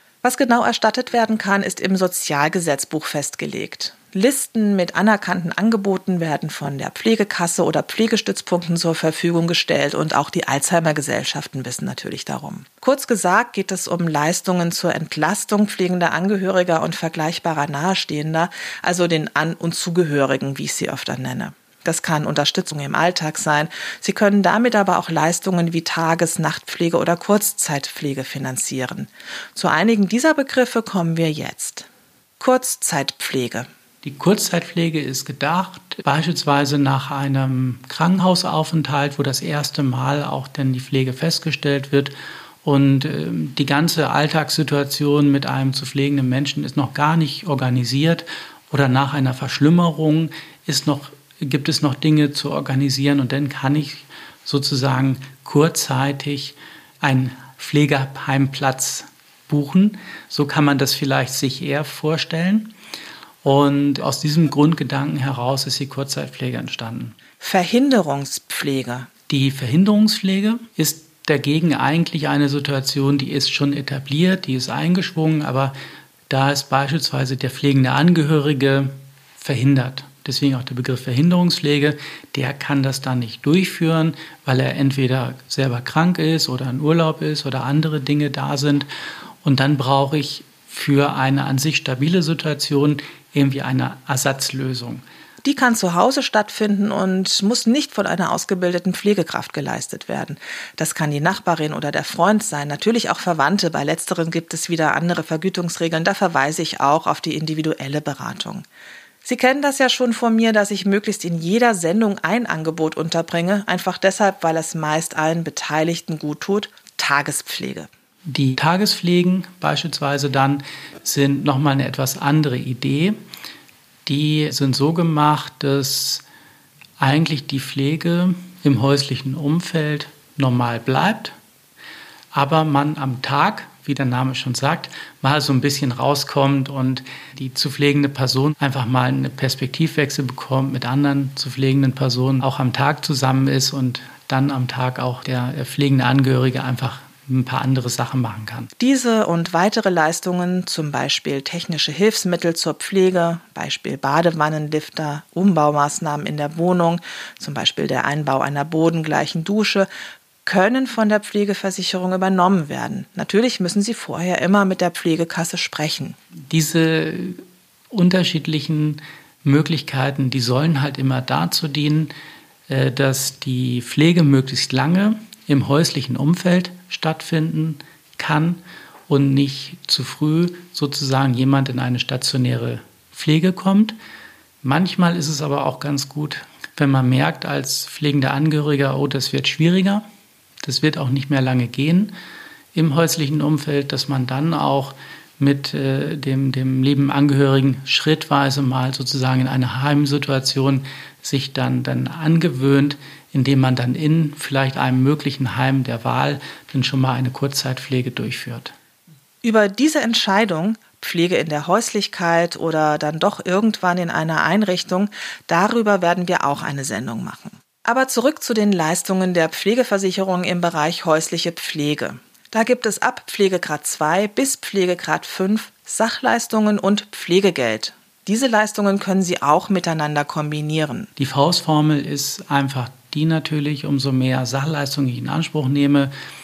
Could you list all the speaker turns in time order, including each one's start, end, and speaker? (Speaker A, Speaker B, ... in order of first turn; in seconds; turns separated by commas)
Speaker A: 0.2-31.9, Speaker A: 32.4-33.7, Speaker B: 34.0-62.7, Speaker B: 63.4-67.1, Speaker A: 67.4-69.1, Speaker B: 69.3-75.7, Speaker B: 76.3-88.9, Speaker B: 89.4-95.0, Speaker A: 95.4-108.7, Speaker A: 109.2-117.9, Speaker B: 118.3-123.2, Speaker B: 124.0-126.2, Speaker B: 127.0-131.3, Speaker B: 132.3-148.7, Speaker A: 148.8-159.9, Speaker A: 160.4-166.2, Speaker B: 166.5-172.1, Speaker B: 172.7-183.9, Speaker B: 184.6-190.0, Speaker B: 190.6-192.1, Speaker B: 192.7-208.7, Speaker A: 209.4-231.1, Speaker B: 231.2-236.1